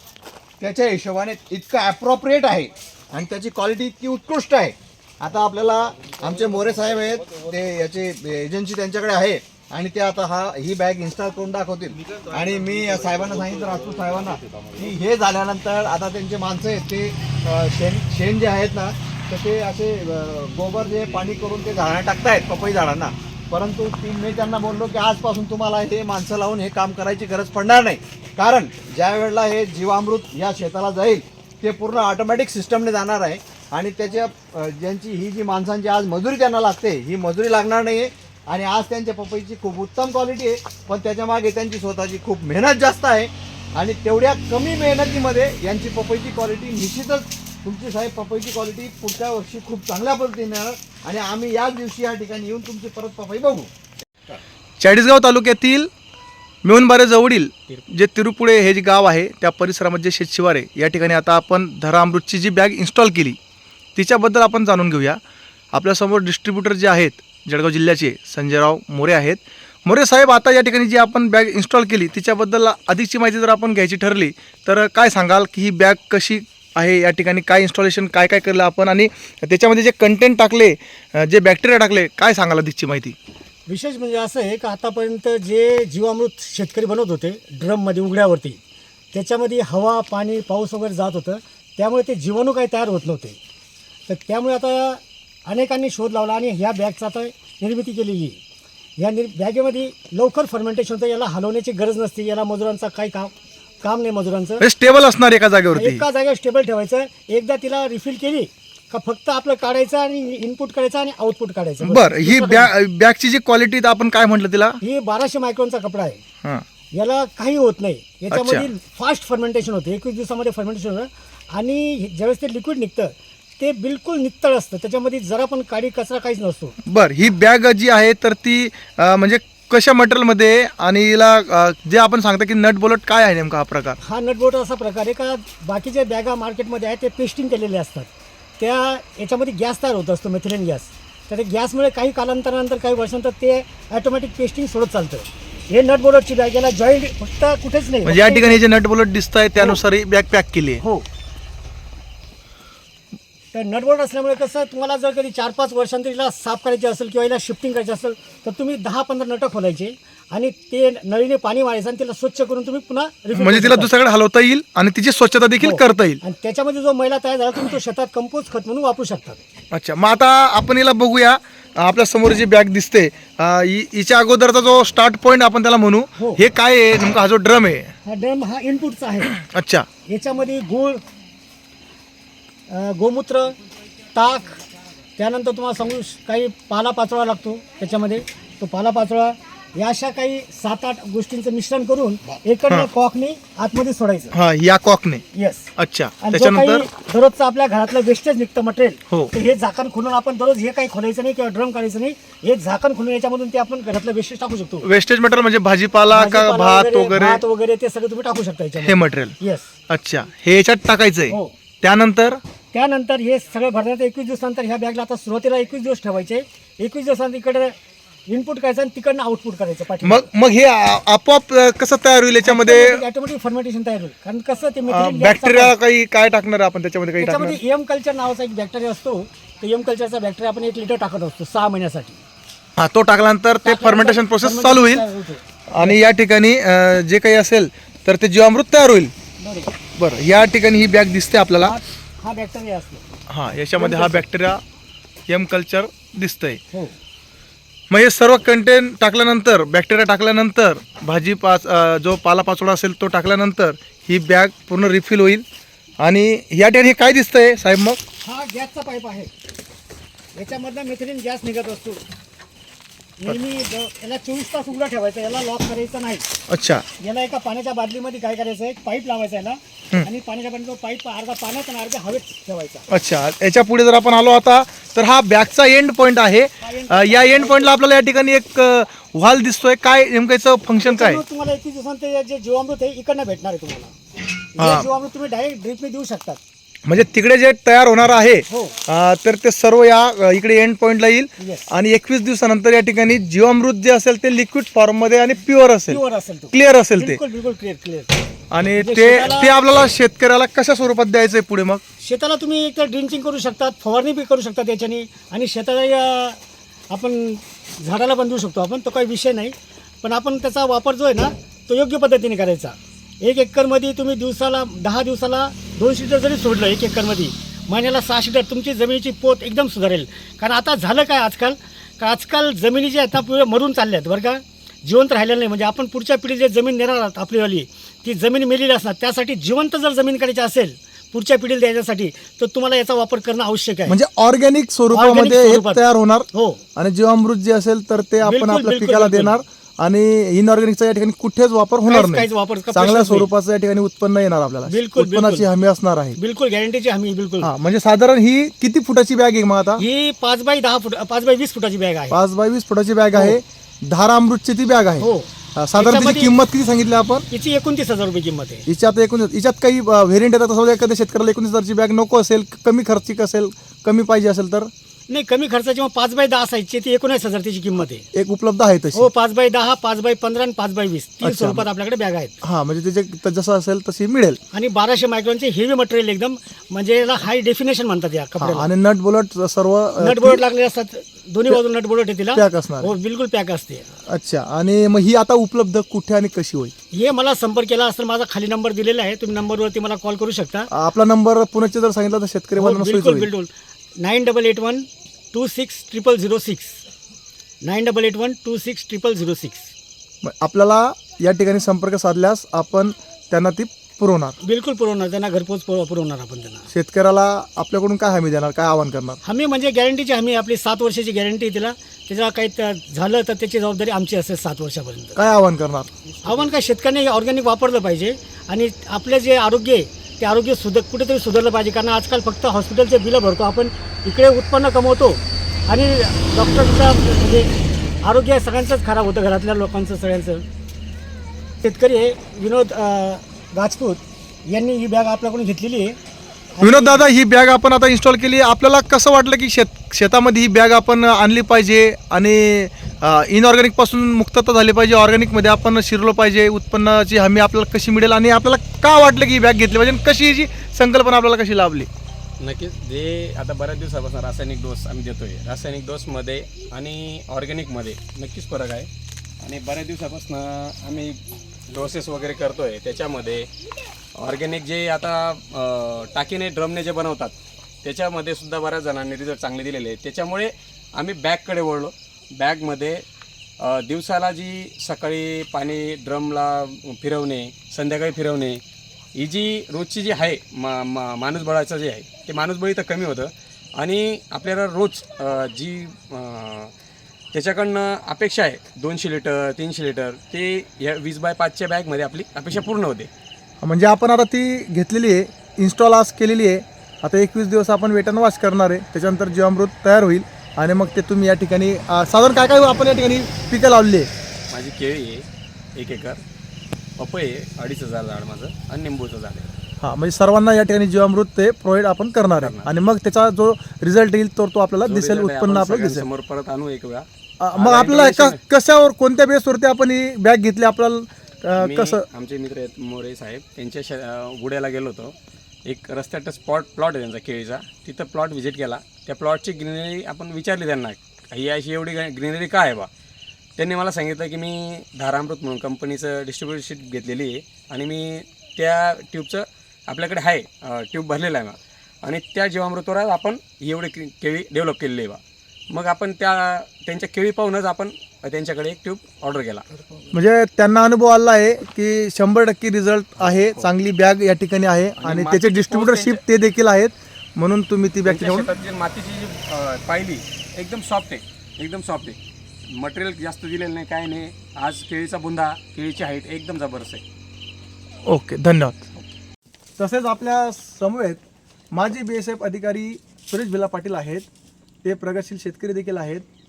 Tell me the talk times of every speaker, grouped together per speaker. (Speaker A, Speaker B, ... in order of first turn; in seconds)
Speaker A: 0.6-53.7
Speaker B: 54.8-55.9, 56.6-63.4, 63.9-65.2, 65.7-83.2, 104.6-106.0, 111.8-114.8, 118.3-118.7, 126.9-134.0, 148.0-150.8, 163.3-166.2, 169.7-177.9, 179.3-179.9, 194.3-195.2, 195.8-196.9, 204.8-207.4, 208.8-209.3, 209.9-212.4, 220.0-223.0, 224.9-227.6, 232.8-235.0, 235.7-239.1, 239.9-241.8, 243.3-244.6, 245.3-246.6, 247.9-255.4, 256.0-258.0, 266.5-266.8, 272.9-281.2, 284.6-284.9, 286.9-296.0, 296.5-297.2, 298.5-301.8, 333.9-346.2, 347.4-349.8, 352.1-355.0, 355.6-357.2, 358.7-364.7, 368.1-369.0, 371.2-371.6, 372.4-374.4, 378.4-380.4, 382.3-382.9, 384.1-386.7, 390.7-393.3, 400.2-404.3, 406.7-409.2, 415.1-416.0, 436.6-451.9, 493.6-504.1, 509.8-516.0, 517.4-522.0, 550.1-558.5, 568.0-568.9, 569.8-571.2, 571.7-574.3, 574.8-576.2
Speaker C: 83.7-88.6, 89.1-93.4, 94.1-98.4, 99.0-104.6, 105.7-112.7, 114.8-116.2, 116.9-126.7, 134.0-148.6, 150.8-151.1, 153.5-163.9, 165.6-169.4, 176.2-176.4, 178.0-179.4, 180.0-181.0, 182.7-183.5, 184.1-184.6, 185.2-194.3, 195.3-195.7, 196.2-204.9, 206.1-209.7, 211.3-211.5, 212.7-217.7, 218.3-220.3, 222.4-225.8, 227.2-232.2, 233.6-236.1, 239.4-239.8, 241.6-243.0, 243.8-244.2, 258.2-259.3, 260.3-262.0, 263.2-266.3, 267.0-272.9, 276.6-277.8, 280.8-283.9, 284.5-286.4, 288.5-288.8, 291.4-291.7, 295.9-298.2, 298.8-299.6, 302.0-306.4, 306.9-334.0, 334.9-336.6, 338.2-339.4, 341.9-343.3, 344.7-345.5, 346.2-347.5, 349.8-352.2, 353.1-353.4, 355.0-356.3, 357.3-358.6, 365.1-368.1, 368.9-372.3, 374.5-378.7, 380.0-383.9, 386.9-390.7, 392.6-396.8, 397.6-399.7, 404.4-406.7, 409.2-415.1, 416.2-427.5, 428.0-430.4, 431.6-436.0, 436.6-437.1
Speaker D: 452.4-458.9, 459.4-463.5, 464.1-473.0, 473.6-478.6, 479.1-486.7, 487.3-493.1, 504.5-506.2, 507.0-509.5, 512.3-512.7, 514.8-518.4, 521.5-525.1, 525.6-532.9, 533.6-549.7, 553.2-553.7, 555.0-556.2, 558.0-562.2, 562.7-567.0